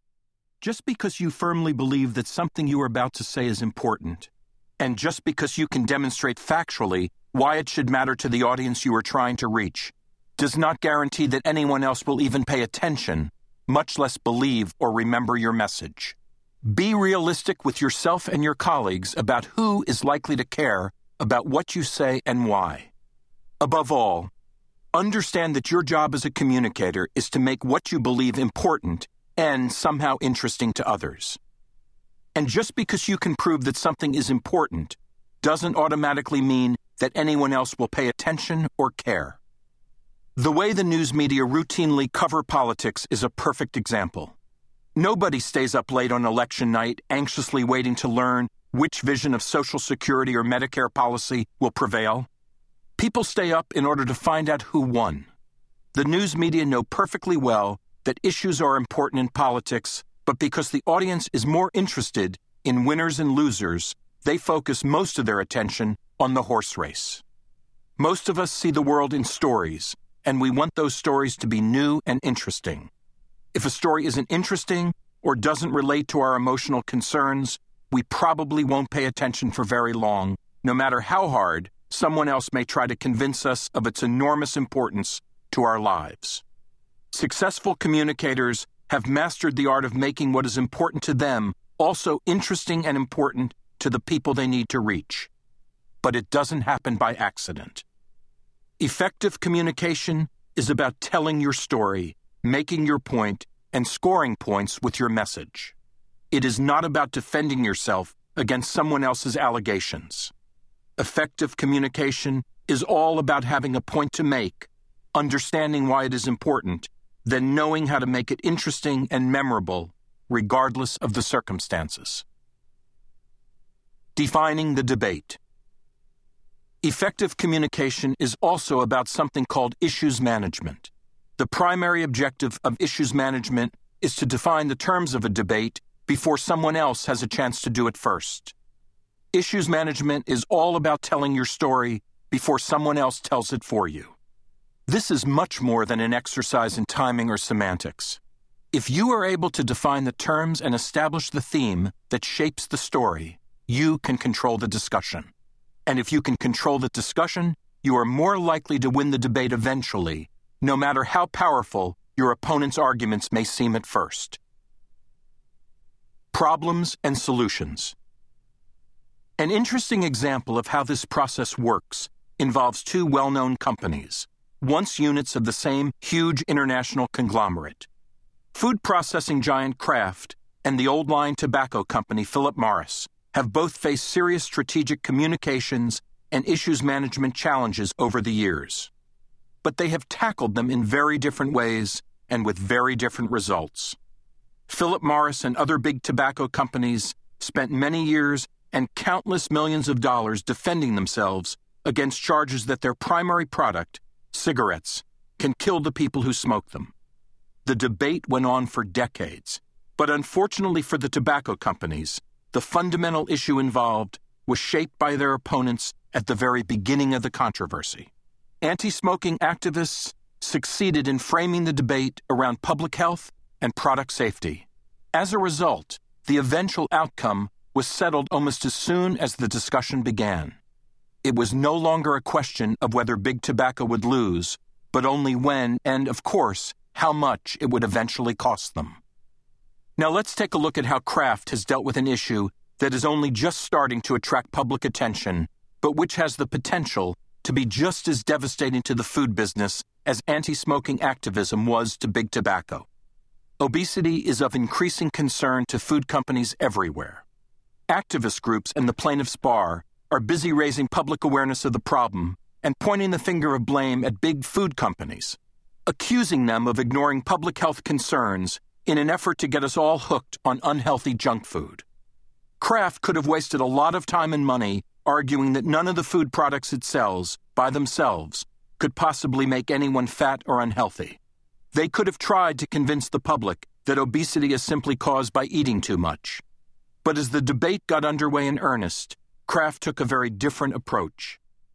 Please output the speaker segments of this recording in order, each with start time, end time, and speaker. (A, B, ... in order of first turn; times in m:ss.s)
0:00.6-0:22.9 A
0:23.6-0:24.3 A
0:24.9-0:31.4 A
0:32.4-0:39.4 A
0:40.4-0:44.4 A
0:45.0-0:52.3 A
0:53.0-0:55.3 A
0:55.9-1:07.2 A
1:08.0-1:12.9 A
1:13.5-1:26.4 A
1:27.1-1:35.3 A
1:36.0-1:37.8 A
1:38.8-1:45.8 A
1:46.3-1:50.3 A
1:51.0-2:02.2 A
2:04.2-2:05.4 A
2:06.8-2:18.6 A
2:19.3-2:24.2 A
2:24.9-2:28.2 A
2:28.7-2:35.3 A
2:35.9-2:44.4 A
2:46.3-2:48.0 A
2:49.4-2:57.9 A
2:58.5-3:08.9 A
3:09.6-3:14.0 A
3:14.7-3:26.9 A
3:27.6-3:50.6 A
3:51.2-3:59.0 A
4:00.0-4:12.9 A
4:13.6-4:17.2 A
4:17.9-4:31.8 A
4:32.6-4:41.2 A
4:41.7-4:46.4 A
4:47.0-4:51.4 A